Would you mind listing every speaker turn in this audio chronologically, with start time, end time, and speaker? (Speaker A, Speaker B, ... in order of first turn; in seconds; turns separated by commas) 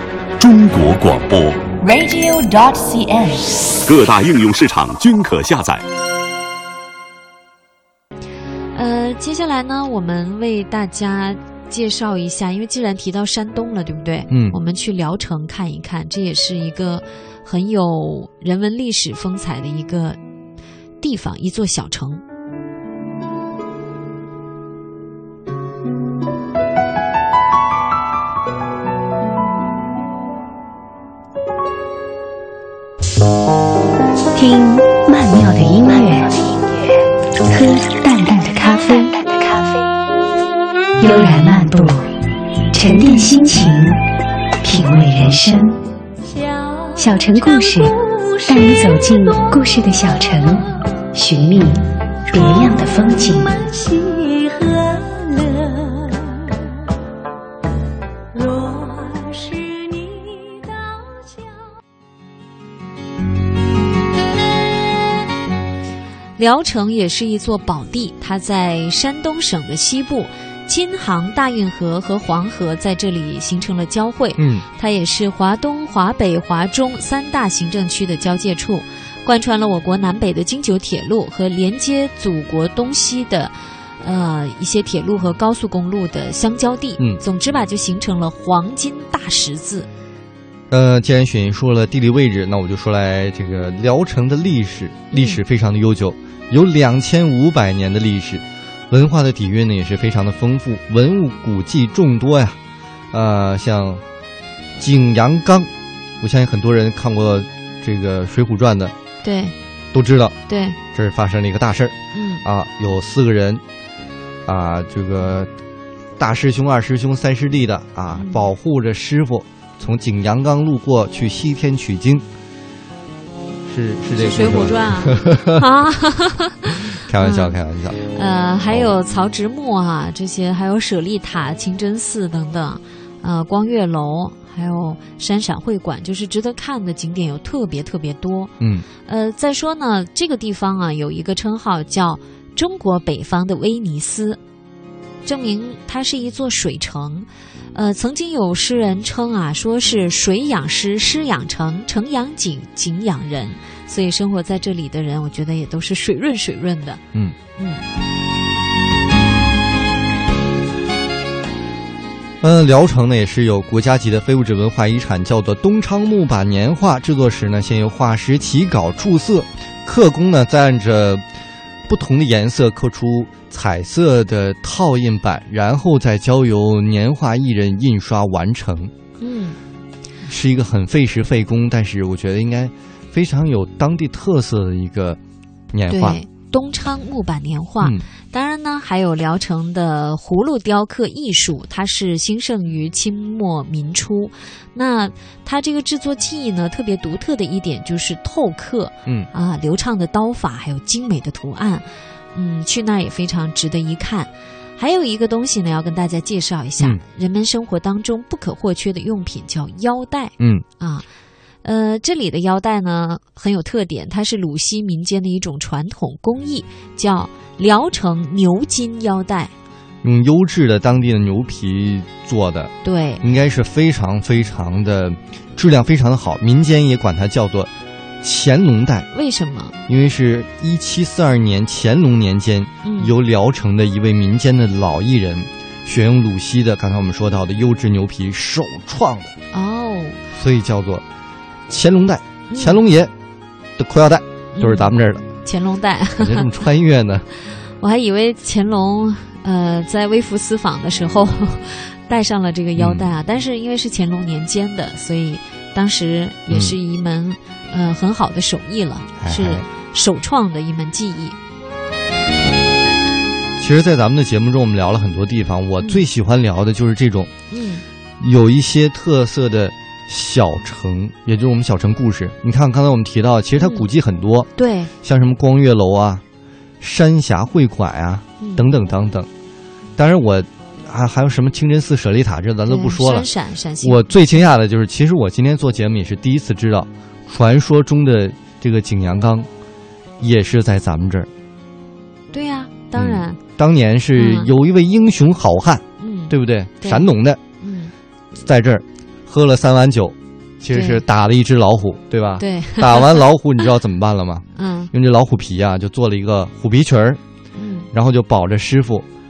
Speaker A: 0.4-1.6, Speaker B: 1.8-3.6, Speaker A: 3.9-5.8, Speaker C: 8.7-20.2, Speaker D: 14.3-14.6, Speaker C: 21.0-22.2, Speaker E: 34.4-36.8, Speaker E: 37.5-39.8, Speaker E: 41.0-42.1, Speaker E: 42.7-44.0, Speaker E: 44.6-45.8, Speaker E: 47.0-53.7, Speaker B: 55.6-55.8, Speaker B: 58.4-59.1, Speaker B: 60.2-60.6, Speaker C: 66.4-89.9, Speaker D: 74.4-74.7, Speaker D: 90.7-102.6, Speaker C: 95.1-95.4, Speaker D: 103.1-104.0, Speaker D: 104.8-105.7, Speaker D: 106.2-108.9, Speaker C: 109.2-109.5, Speaker D: 109.9-110.4, Speaker C: 110.5-110.8, Speaker D: 110.9-113.6, Speaker C: 112.1-112.4, Speaker D: 114.5-115.5, Speaker D: 116.2-122.2, Speaker C: 118.1-118.5, Speaker D: 123.7-125.6, Speaker C: 124.1-127.6, Speaker D: 127.0-128.0, Speaker C: 128.1-138.5, Speaker D: 138.6-138.9, Speaker C: 139.1-144.4, Speaker C: 145.2-157.0, Speaker C: 157.6-157.8, Speaker D: 162.4-171.2, Speaker D: 171.9-178.9, Speaker C: 179.2-179.6, Speaker D: 180.2-185.2, Speaker D: 185.7-186.2, Speaker C: 185.9-211.1, Speaker D: 187.8-188.1, Speaker D: 210.4-210.7, Speaker C: 211.6-219.5, Speaker D: 220.0-227.7, Speaker C: 222.8-223.2, Speaker D: 228.2-229.1, Speaker C: 229.1-229.8, Speaker D: 229.9-239.3, Speaker C: 232.8-233.2, Speaker C: 239.5-240.2, Speaker D: 240.3-241.0, Speaker D: 241.7-243.1, Speaker C: 242.5-242.8, Speaker D: 243.8-245.3, Speaker C: 244.6-246.4, Speaker D: 246.2-247.3, Speaker C: 247.5-261.4, Speaker D: 252.8-253.2, Speaker D: 256.5-256.8, Speaker D: 259.2-259.7, Speaker D: 263.6-267.3, Speaker C: 265.8-266.1, Speaker C: 267.5-267.8, Speaker D: 268.2-274.5, Speaker C: 273.6-273.9, Speaker C: 274.6-274.9, Speaker D: 275.0-276.2, Speaker D: 276.8-279.3, Speaker C: 278.4-278.7, Speaker D: 280.0-283.3, Speaker C: 282.6-284.4, Speaker D: 283.8-289.5, Speaker D: 290.2-291.3, Speaker C: 292.3-293.4, Speaker D: 292.9-297.4, Speaker C: 294.1-294.5, Speaker C: 296.0-297.1, Speaker C: 297.6-297.9, Speaker D: 298.4-307.2, Speaker C: 300.7-301.0, Speaker C: 302.4-303.2, Speaker C: 304.6-304.9, Speaker C: 307.6-307.9, Speaker D: 307.9-309.1